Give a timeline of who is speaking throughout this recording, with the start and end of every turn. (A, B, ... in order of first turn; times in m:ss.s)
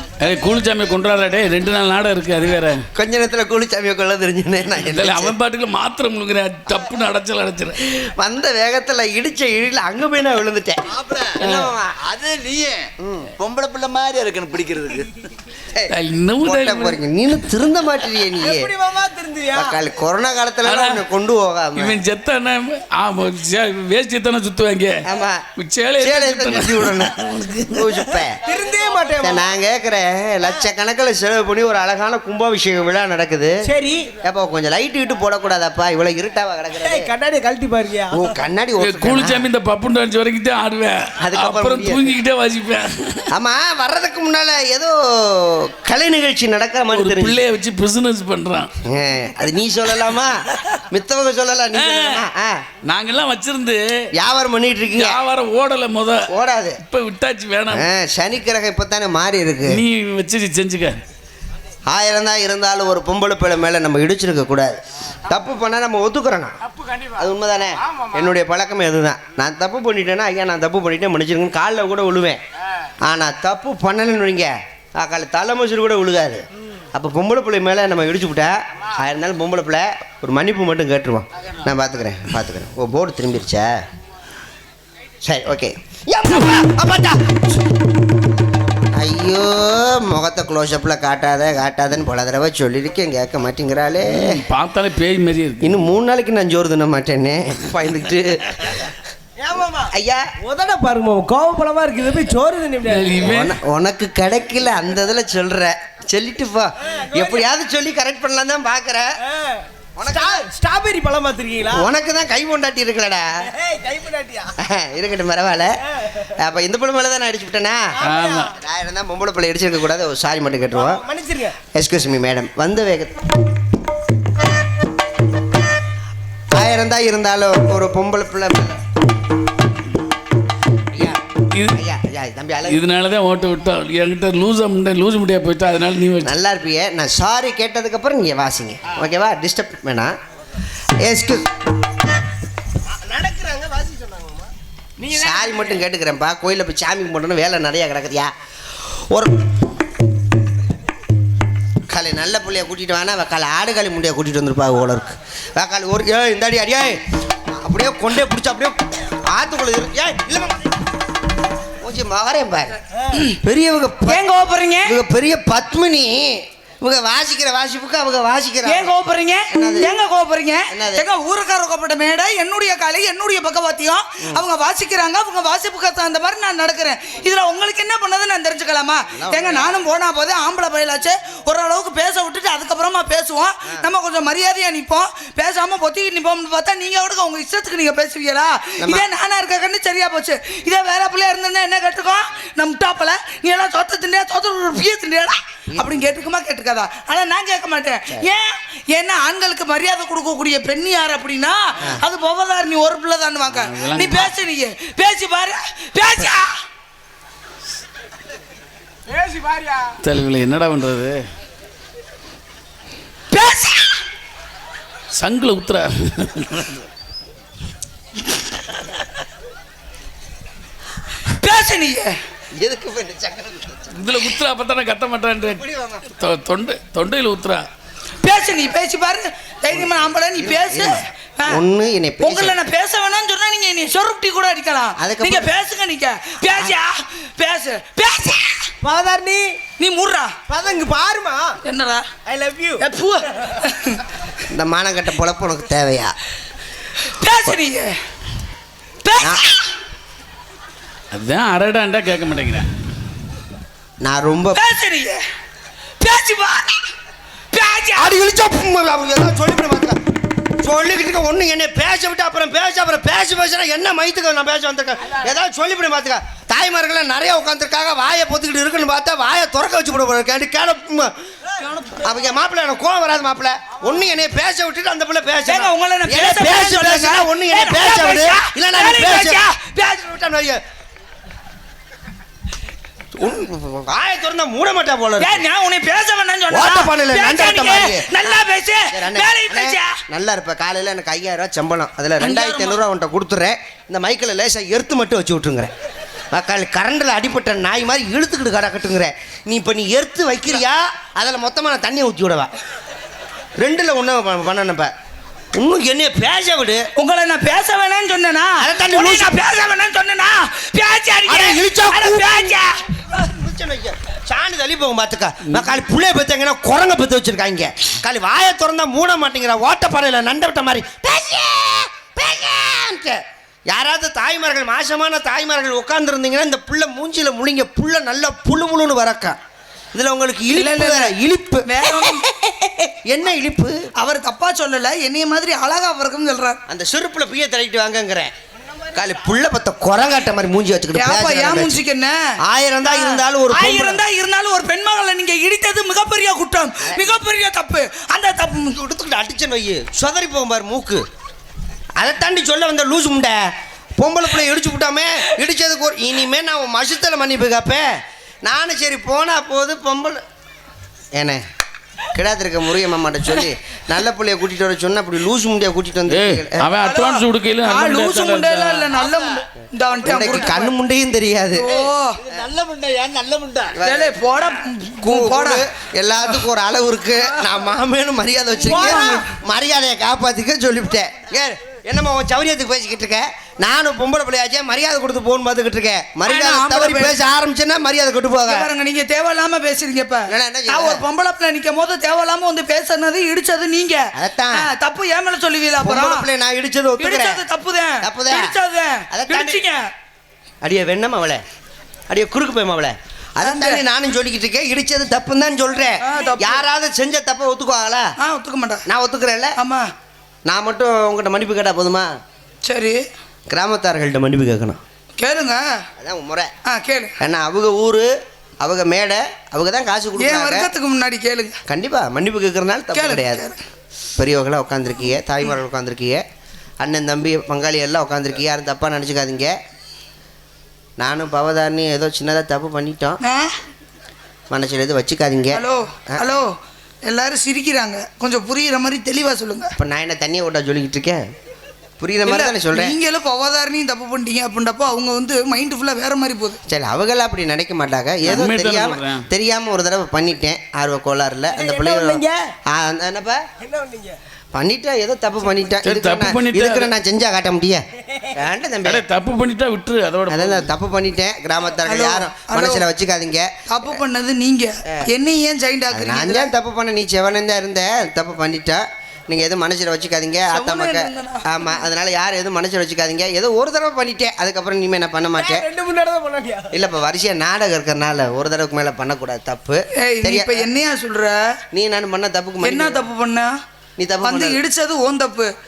0:00.2-0:02.8 A
0:03.0-0:05.4 B
0:04.8-0:07.8 A
0:07.9-0:10.8 B
0:11.1-0:15.1 C
0:11.4-0:12.0 B
0:13.0-0:13.3 B
0:15.8-0:18.7 B
0:15.9-0:17.0 A
0:18.4-0:19.7 D
0:19.5-0:22.0 B
0:20.6-0:21.0 A
0:21.8-0:25.0 A
0:25.0-0:25.5 B
0:25.6-0:28.0 A
0:26.0-0:27.2 B
0:27.7-0:28.4 B
0:28.4-0:29.5 D
0:29.2-0:33.6 B
0:33.6-0:34.1 D
0:34.2-0:37.1 B
0:36.9-0:38.3 D
0:38.1-0:39.5 B
0:38.8-0:43.3 A
0:41.2-0:42.1 B
0:43.3-0:47.4 B
0:46.9-0:48.7 A
0:48.8-0:52.6 B
0:51.7-0:52.2 A
0:52.8-0:53.8 A
0:54.2-0:55.2 B
0:54.9-0:56.3 A
0:56.3-0:56.8 B
0:56.8-0:57.9 A
0:57.7-0:59.8 B
0:59.7-1:01.0 A
1:01.9-1:06.6 B
1:07.1-1:12.4 B
1:13.0-1:23.7 B
1:25.2-1:27.4 B
1:29.0-1:34.4 B
1:34.1-1:35.8 A
1:35.6-1:38.9 B
1:39.4-1:43.2 D
1:39.9-1:40.3 B
1:42.8-1:43.6 A
1:43.2-1:49.1 B
1:46.9-1:47.4 D
1:49.3-1:51.9 D
1:50.0-1:50.5 B
1:51.7-1:53.3 B
1:53.5-1:54.5 D
1:54.6-1:57.9 B
1:58.0-1:58.5 D
1:58.0-1:58.5 A
1:58.5-2:01.0 B
2:00.7-2:01.6 D
2:01.7-2:03.2 B
2:06.5-2:08.8 B
2:10.9-2:11.2 B
2:11.5-2:11.8 A
2:11.7-2:12.8 B
2:12.7-2:16.3 A
2:16.2-2:20.1 B
2:21.0-2:21.5 B
2:22.9-2:25.7 D
2:25.1-2:28.3 B
2:29.1-2:29.4 B
2:31.9-2:37.0 B
2:37.6-2:40.7 B
2:41.8-2:42.8 B
2:43.1-2:43.4 E
2:43.3-2:44.2 B
2:44.1-2:45.0 E
2:44.8-2:49.0 B
2:48.7-3:26.6 E
2:49.5-2:49.9 B
2:50.7-2:51.1 B
2:59.2-2:59.7 B
3:08.8-3:09.1 B
3:23.5-3:24.3 A
3:29.2-3:29.8 D
3:30.0-3:31.2 A
3:33.3-3:34.0 E
3:35.1-3:36.8 A
3:41.2-3:42.2 E
3:42.5-3:44.0 B
3:43.9-3:45.6 A
3:45.7-3:46.0 B
3:46.2-3:47.7 A
3:48.2-3:51.6 E
3:49.7-3:52.6 B
3:52.2-3:58.7 E
3:55.0-3:55.5 B
3:58.8-3:59.6 D
3:59.8-4:00.4 E
4:00.5-4:01.6 D
4:01.6-4:02.1 E
4:02.3-4:02.9 D
4:02.8-4:04.0 E
4:04.5-4:06.1 B
4:07.0-4:08.0 E
4:09.0-4:09.7 E
4:09.2-4:09.4 B
4:11.1-4:12.7 A
4:14.0-4:14.6 B
4:14.5-4:15.2 E
4:16.0-4:16.8 E
4:17.5-4:18.2 E
4:18.0-4:20.0 B
4:20.6-4:31.1 B
4:31.6-4:32.1 E
4:32.0-4:40.6 B
4:35.4-4:40.0 E
4:43.2-4:45.4 B
4:45.2-4:50.0 E
4:46.5-4:48.1 B
4:48.9-4:55.7 B
4:52.2-4:52.8 E
4:56.3-5:02.5 B
5:03.6-5:04.9 B
5:05.6-5:06.8 B
5:07.0-5:12.8 E
5:08.6-5:09.5 B
5:11.3-5:23.2 B
5:23.7-5:29.4 B
5:29.9-5:33.8 B
5:30.5-5:32.3 E
5:34.0-5:36.6 E
5:36.7-5:38.3 B
5:38.9-5:41.8 B
5:41.0-5:42.3 E
5:42.4-5:44.0 B
5:42.9-5:48.8 E
5:46.8-5:47.2 B
5:48.7-5:51.0 B
5:52.0-5:57.9 B
5:58.4-6:00.2 B
6:01.2-6:01.4 B
6:02.1-6:06.7 B
6:06.1-6:09.0 A
6:06.9-6:10.7 E
6:10.0-6:11.7 B
6:11.5-6:12.2 E
6:12.4-6:13.7 C
6:12.5-6:13.6 D
6:13.7-6:14.2 B
6:13.8-6:15.6 E
6:15.0-6:28.7 B
6:18.6-6:19.3 E
6:26.3-6:27.2 E
6:28.5-6:36.3 E
6:30.3-6:31.0 B
6:34.2-6:34.7 B
6:35.8-6:37.4 B
6:37.0-6:39.9 E
6:38.0-6:38.6 B
6:39.1-6:39.6 B
6:40.6-6:41.4 B
6:42.1-6:48.1 B
6:43.4-6:43.8 E
6:46.0-6:46.6 E
6:48.2-6:48.8 E
6:48.9-6:49.6 B
6:49.6-6:49.9 E
6:50.5-6:52.1 B
6:52.6-6:53.0 E
6:53.5-6:54.8 B
6:55.2-6:55.8 E
6:56.0-6:56.5 B
6:56.6-6:57.2 E
6:57.2-7:00.7 B
7:00.2-7:01.6 E
7:01.7-7:03.5 B
7:02.9-7:03.6 E
7:04.2-7:06.2 B
7:06.8-7:09.6 B
7:11.0-7:13.2 B
7:13.2-7:13.5 E
7:14.5-7:16.3 B
7:15.5-7:19.7 E
7:19.8-7:21.2 B
7:22.0-7:23.0 B
7:22.3-7:26.6 E
7:26.7-7:33.4 B
7:28.2-7:29.2 A
7:31.5-7:32.5 D
7:33.6-7:34.2 D
7:34.5-7:37.8 B
7:35.8-7:36.9 A
7:38.4-7:39.0 B
7:38.8-7:40.7 A
7:40.3-7:44.0 B
7:41.8-7:42.9 E
7:43.7-7:46.5 E
7:45.9-7:55.7 B
7:50.5-7:51.6 E
7:55.4-7:56.7 D
7:56.7-8:00.7 B
8:00.0-8:01.6 E
8:01.7-8:03.1 B
8:02.6-8:03.5 E
8:04.0-8:04.6 B
8:04.2-8:05.5 E